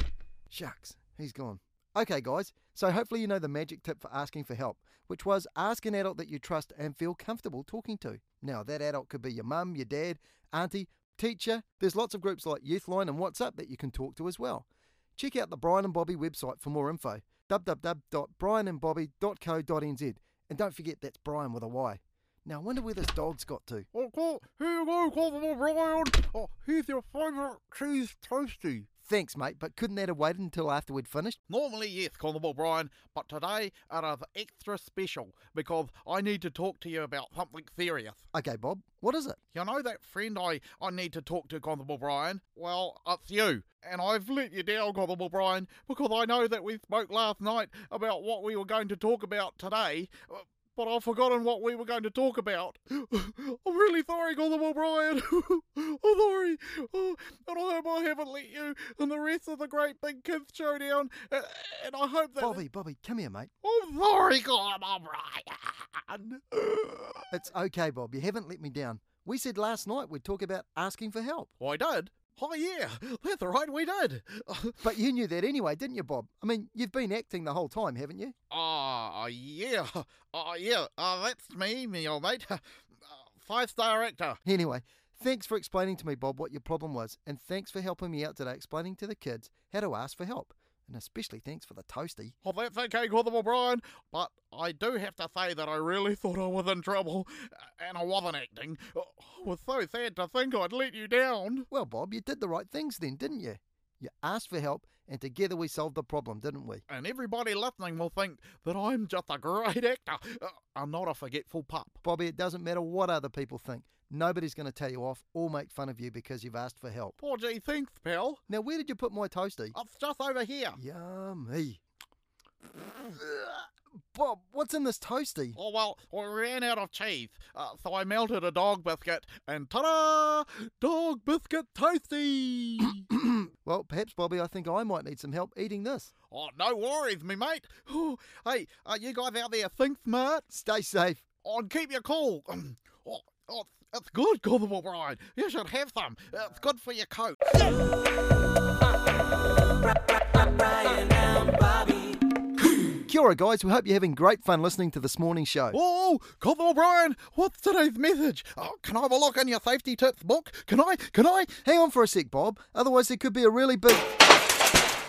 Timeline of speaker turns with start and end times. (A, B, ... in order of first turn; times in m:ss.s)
0:00.5-0:23.9 A
0:23.9-0:28.9 B
0:29.0-0:31.4 A
0:31.5-0:38.2 B
0:38.3-0:39.4 A
0:39.5-1:02.6 B
1:02.4-1:03.5 A
1:03.6-1:07.3 B
1:07.3-1:11.5 A
1:11.6-1:14.9 B
1:14.8-1:18.3 A
1:18.5-1:24.4 B
1:24.4-1:32.3 A
1:32.4-1:41.7 B
1:41.7-1:46.8 A
1:46.9-1:52.0 B
1:52.0-1:57.2 A
1:57.2-1:58.4 B
1:58.5-1:59.8 A
1:59.7-2:00.8 B
2:00.8-2:01.8 A
2:03.1-2:05.6 A
2:05.5-2:13.1 B
2:13.1-2:16.1 A
2:16.3-2:20.4 B
2:20.5-2:21.2 A
2:21.4-2:27.4 B
2:33.0-2:35.8 A
2:35.7-2:41.5 B
2:41.6-2:44.1 A